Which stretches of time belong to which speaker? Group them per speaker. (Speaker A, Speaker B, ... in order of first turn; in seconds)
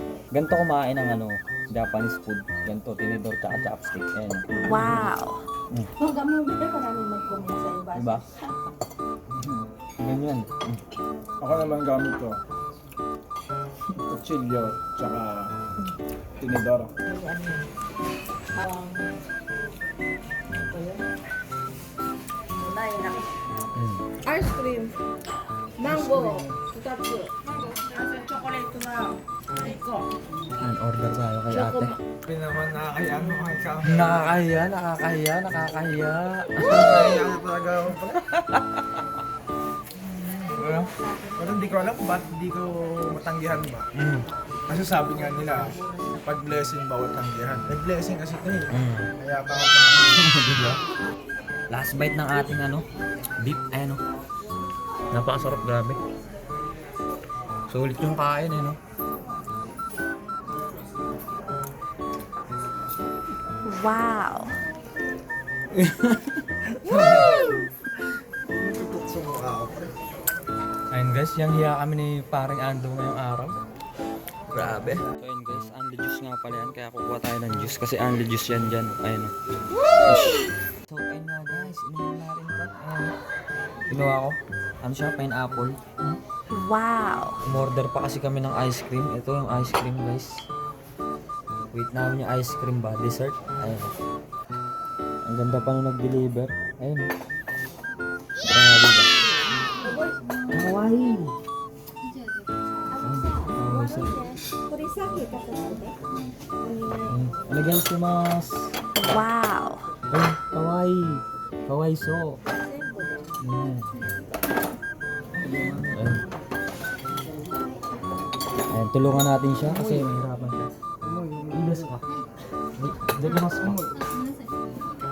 Speaker A: 0.3-5.2, 8.0-8.2, 10.0-10.8, 23.8-24.1, 30.6-31.9, 33.8-37.2, 38.2-39.0, 44.0-44.3, 48.7-49.1, 50.2-50.8, 51.7-52.9, 53.4-54.0, 55.1-56.0, 57.7-58.8, 65.8-66.4, 70.9-73.5, 74.5-79.3, 80.0-83.1, 83.9-86.2, 87.4-90.4, 91.6-94.0, 95.3-97.1, 98.5-99.1, 100.5-101.3, 103.0-104.2, 107.1-108.7, 110.1-112.4, 113.4-113.9, 115.8-116.2, 118.7-120.7, 121.5-122.1, 122.8-123.8
Speaker B: 4.5-5.4, 63.6-64.5, 86.5-87.4, 109.0-109.8
Speaker C: 6.0-8.5, 17.1-17.7, 18.5-19.1, 20.5-21.0, 22.6-23.3, 24.2-24.9, 25.8-30.1, 31.5-31.9, 40.5-41.9, 99.8-100.2, 102.9-106.0, 106.6-107.2, 112.5-113.3
Speaker D: 9.3-9.7, 11.4-12.4, 14.0-15.5, 16.4-16.9, 25.8-26.6, 32.3-34.3, 36.6-38.2, 40.0-43.9, 44.7-50.3, 66.7-67.4, 68.5-69.9, 115.4-116.2, 119.7-120.1, 121.0-122.0, 123.4-124.0